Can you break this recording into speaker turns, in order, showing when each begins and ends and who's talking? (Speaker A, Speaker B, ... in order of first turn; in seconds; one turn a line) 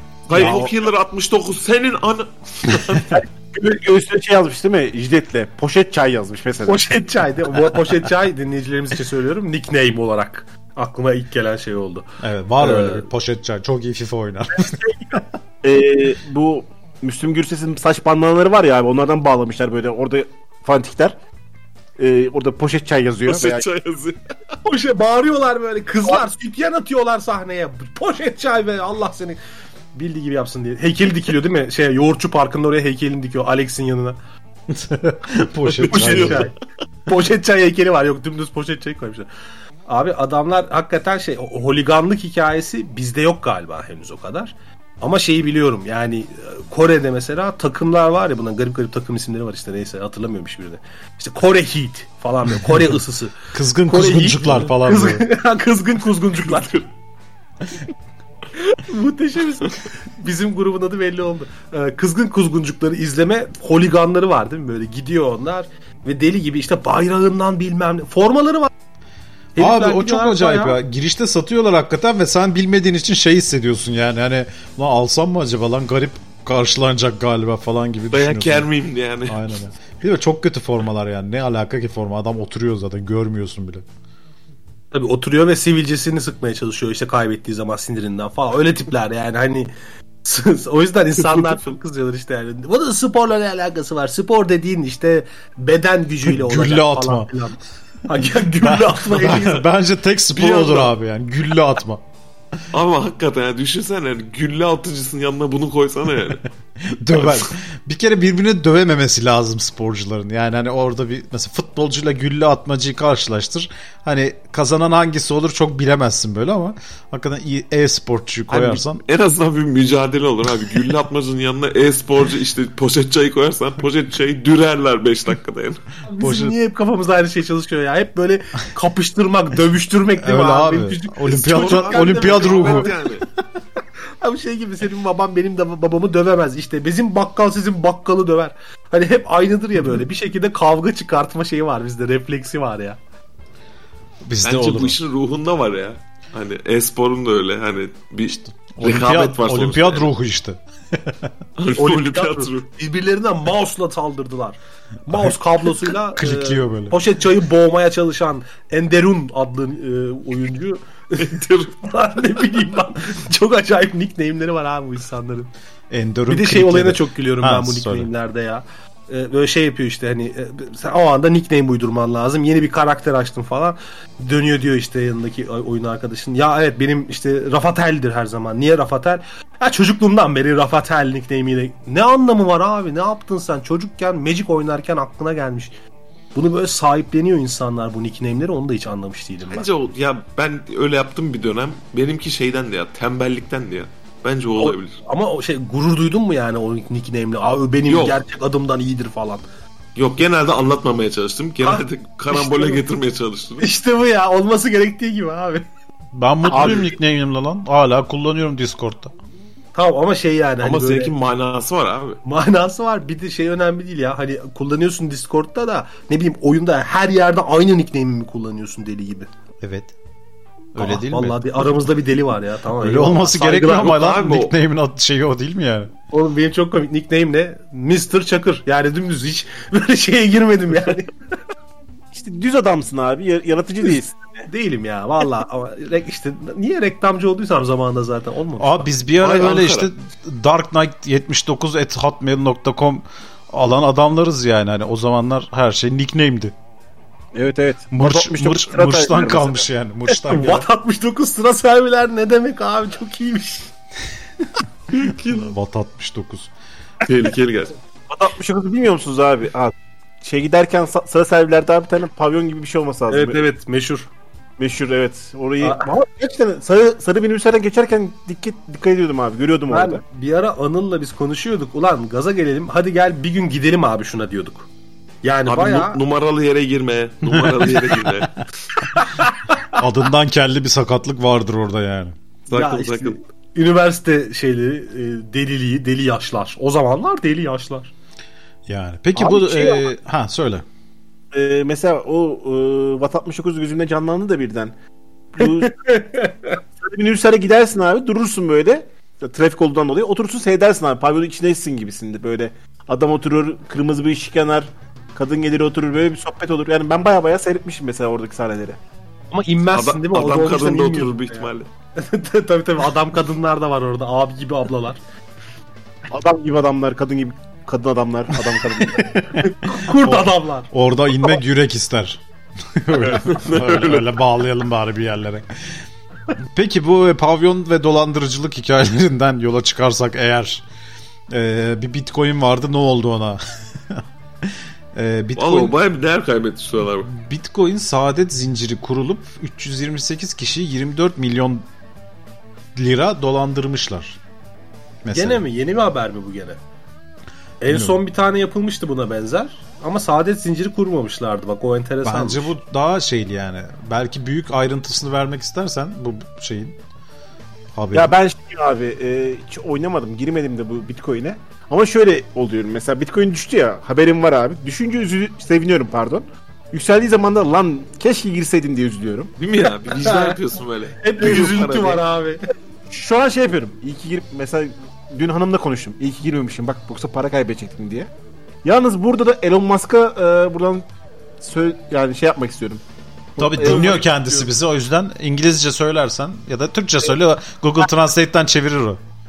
Speaker A: 0.3-3.2
Speaker B: 0.3-0.7
Speaker C: 3.1-6.8
Speaker D: 6.7-12.1
Speaker B: 12.2-15.2
Speaker D: 12.6-13.0
Speaker C: 15.6-21.1
Speaker C: 22.0-23.6
Speaker A: 23.3-24.2
Speaker D: 24.6-29.4
Speaker D: 29.9-34.2
Speaker B: 34.7-36.5
Speaker A: 35.7-36.5
Speaker D: 35.9-36.5
Speaker D: 37.1-39.3
Speaker D: 39.9-56.7
Speaker B: 53.5-55.2
Speaker A: 56.4-56.8
Speaker D: 58.6-68.7
Speaker D: 69.6-70.8
Speaker B: 69.6-78.7
Speaker A: 78.1-79.4
Speaker B: 79.3-83.8
Speaker D: 84.9-89.7
Speaker D: 90.2-99.7
Speaker B: 96.3-97.3
Speaker B: 98.6-102.0
Speaker A: 100.3-100.9
Speaker A: 102.7-106.4
Speaker B: 106.8-119.0
Speaker A: 107.1-107.5
Speaker A: 118.5-125.8
Speaker D: 126.1-132.9
Speaker B: 126.2-126.5
Speaker B: 130.2-132.9
Speaker A: 131.3-133.2
Speaker D: 134.2-143.0
Speaker B: 144.2-145.0
Speaker A: 144.4-150.1
Speaker B: 148.3-151.3
Speaker A: 151.6-152.6
Speaker D: 151.7-161.3
Speaker B: 156.2-157.0
Speaker A: 161.2-161.8
Speaker D: 161.8-165.5
Speaker B: 165.9-168.1
Speaker D: 166.3-185.7
Speaker D: 186.3-189.7
Speaker A: 189.5-195.0
Speaker D: 194.6-199.4
Speaker A: 197.9-198.2
Speaker A: 199.9-203.7
Speaker D: 201.6-202.8
Speaker D: 203.6-205.7
Speaker B: 206.1-209.1
Speaker C: 206.5-206.8
Speaker D: 206.5-206.8
Speaker D: 209.7-211.1
Speaker A: 210.6-212.2
Speaker D: 212.2-219.3
Speaker B: 219.6-219.9
Speaker B: 220.8-221.4
Speaker D: 220.8-224.0
Speaker B: 222.8-225.9
Speaker A: 223.8-224.5
Speaker D: 226.1-231.1
Speaker C: 232.1-234.4
Speaker D: 234.5-238.9
Speaker B: 238.6-246.5
Speaker A: 239.2-239.9
Speaker C: 247.3-249.7
Speaker B: 247.9-250.6
Speaker D: 250.3-253.7
Speaker A: 254.9-255.5
Speaker B: 255.3-256.5
Speaker A: 257.0-257.7
Speaker C: 258.1-263.4
Speaker D: 263.1-264.1
Speaker C: 264.6-270.0
Speaker D: 269.7-274.7
Speaker D: 275.2-276.0
Speaker A: 275.4-278.4
Speaker B: 277.3-277.8
Speaker D: 279.0-279.6
Speaker B: 279.8-282.1
Speaker A: 282.5-283.2
Speaker D: 282.5-287.9
Speaker B: 288.7-290.6
Speaker C: 289.1-289.8
Speaker C: 291.3-294.7
Speaker C: 295.3-295.7
Speaker D: 295.4-296.6
Speaker C: 296.8-308.8
Speaker D: 309.3-315.0
Speaker A: 309.7-311.7
Speaker C: 316.1-319.1
Speaker B: 318.9-322.2
Speaker D: 319.4-320.7
Speaker B: 322.8-325.4
Speaker A: 323.1-324.1
Speaker B: 326.5-330.6
Speaker B: 331.3-334.0
Speaker B: 334.9-335.7
Speaker A: 335.4-337.1
Speaker B: 337.0-341.6
Speaker B: 342.8-344.2
Speaker B: 345.0-345.4
Speaker D: 345.1-346.6
Speaker D: 347.6-352.5
Speaker B: 347.7-348.0
Speaker B: 352.0-356.8
Speaker B: 357.7-358.1
Speaker C: 357.9-369.3
Speaker A: 369.4-372.0
Speaker D: 369.8-370.4
Speaker D: 371.0-372.4
Speaker C: 372.9-378.1
Speaker C: 378.6-380.9
Speaker C: 381.4-382.8
Speaker C: 383.4-384.0
Speaker B: 383.4-389.0
Speaker D: 383.5-384.5